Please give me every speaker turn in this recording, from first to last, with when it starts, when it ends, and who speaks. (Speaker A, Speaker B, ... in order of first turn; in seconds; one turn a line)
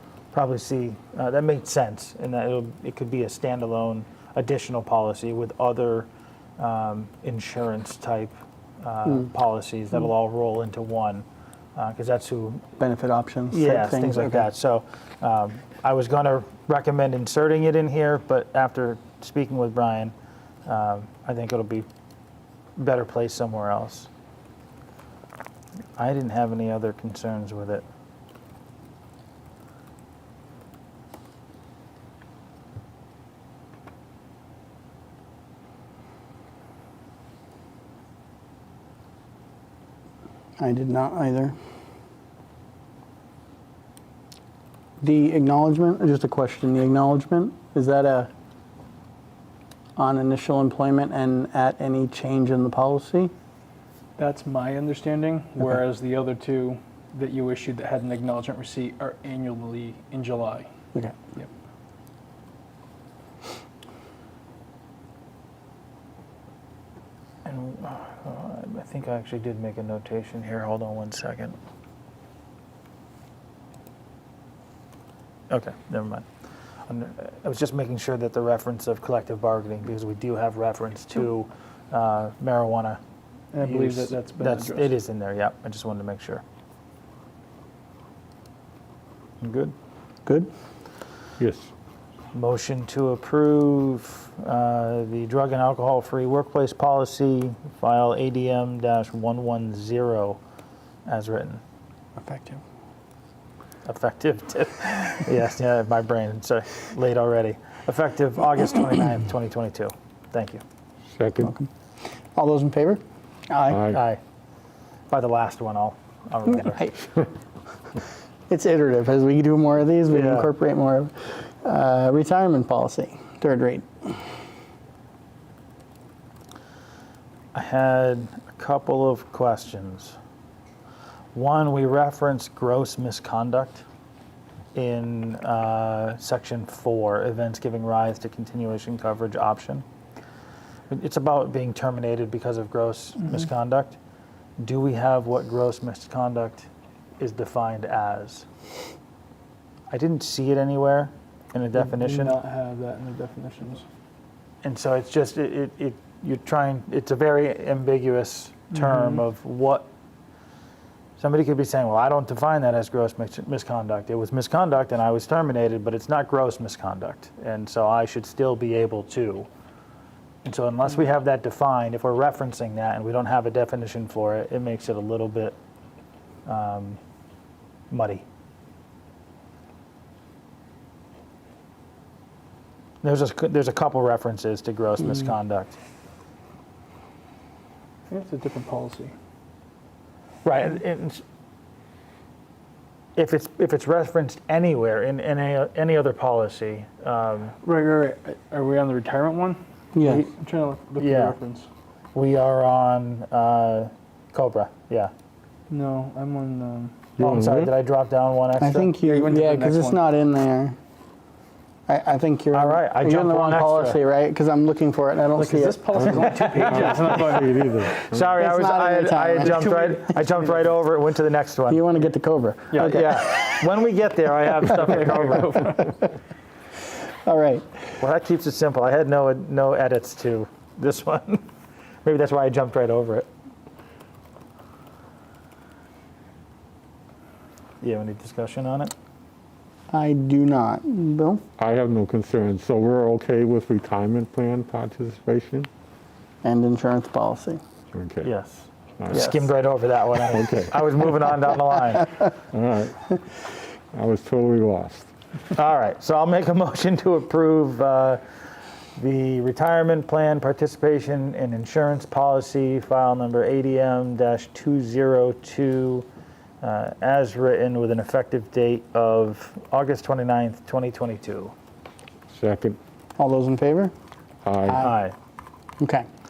Speaker A: 0.3-12.6
Speaker B: 12.8-14.5
Speaker A: 13.5-20.1
Speaker A: 20.6-21.9
Speaker A: 22.8-24.1
Speaker A: 26.0-27.8
Speaker B: 40.6-41.5
Speaker B: 45.0-48.3
Speaker B: 50.0-53.3
Speaker C: 54.2-60.7
Speaker A: 67.4-71.5
Speaker A: 75.5-76.2
Speaker A: 76.9-83.0
Speaker C: 83.5-84.9
Speaker A: 83.6-86.4
Speaker A: 89.4-89.7
Speaker D: 91.4-91.7
Speaker A: 92.3-100.4
Speaker A: 101.1-101.6
Speaker B: 102.2-102.6
Speaker A: 103.8-110.6
Speaker D: 111.1-111.5
Speaker B: 111.4-111.7
Speaker B: 112.3-113.8
Speaker D: 113.7-114.0
Speaker A: 113.9-114.2
Speaker A: 115.1-116.9
Speaker B: 118.5-124.2
Speaker A: 120.1-120.5
Speaker A: 127.5-130.2
Speaker A: 131.3-133.8
Speaker A: 134.7-139.8
Speaker A: 140.9-144.0
Speaker A: 144.6-146.7
Speaker A: 147.2-148.4
Speaker A: 149.9-152.4
Speaker C: 151.8-153.8
Speaker A: 154.6-159.9
Speaker A: 161.2-169.5
Speaker A: 170.4-175.6
Speaker A: 176.4-177.0
Speaker A: 177.9-178.2
Speaker A: 183.0-185.8
Speaker C: 188.1-189.1
Speaker A: 190.4-191.2
Speaker A: 193.2-197.6
Speaker C: 197.6-201.7
Speaker B: 199.9-200.3
Speaker A: 201.0-201.3
Speaker A: 202.1-205.1
Speaker C: 205.7-206.9
Speaker D: 207.2-207.7
Speaker A: 207.2-208.9
Speaker B: 208.6-210.8
Speaker C: 209.0-210.0
Speaker B: 211.9-216.3
Speaker A: 212.5-214.0
Speaker C: 215.3-217.7
Speaker D: 215.9-218.3
Speaker A: 216.4-217.2
Speaker A: 218.0-221.9
Speaker B: 218.4-219.7
Speaker C: 219.4-220.6
Speaker B: 221.7-223.1
Speaker C: 222.7-223.0
Speaker A: 222.7-225.9
Speaker B: 227.2-227.8
Speaker A: 228.0-231.5
Speaker A: 232.0-233.3
Speaker A: 237.8-238.9
Speaker B: 239.9-241.4
Speaker D: 241.6-245.7
Speaker B: 246.4-247.6
Speaker D: 247.9-248.3
Speaker A: 248.2-252.2
Speaker D: 249.0-249.4
Speaker D: 250.3-250.7
Speaker D: 252.5-253.4
Speaker D: 253.9-255.1
Speaker A: 255.5-258.2
Speaker A: 258.9-266.1
Speaker A: 266.6-271.5
Speaker D: 272.3-272.8
Speaker B: 273.2-273.9
Speaker D: 274.4-274.9
Speaker B: 274.7-275.0
Speaker A: 274.8-275.1
Speaker B: 275.8-276.1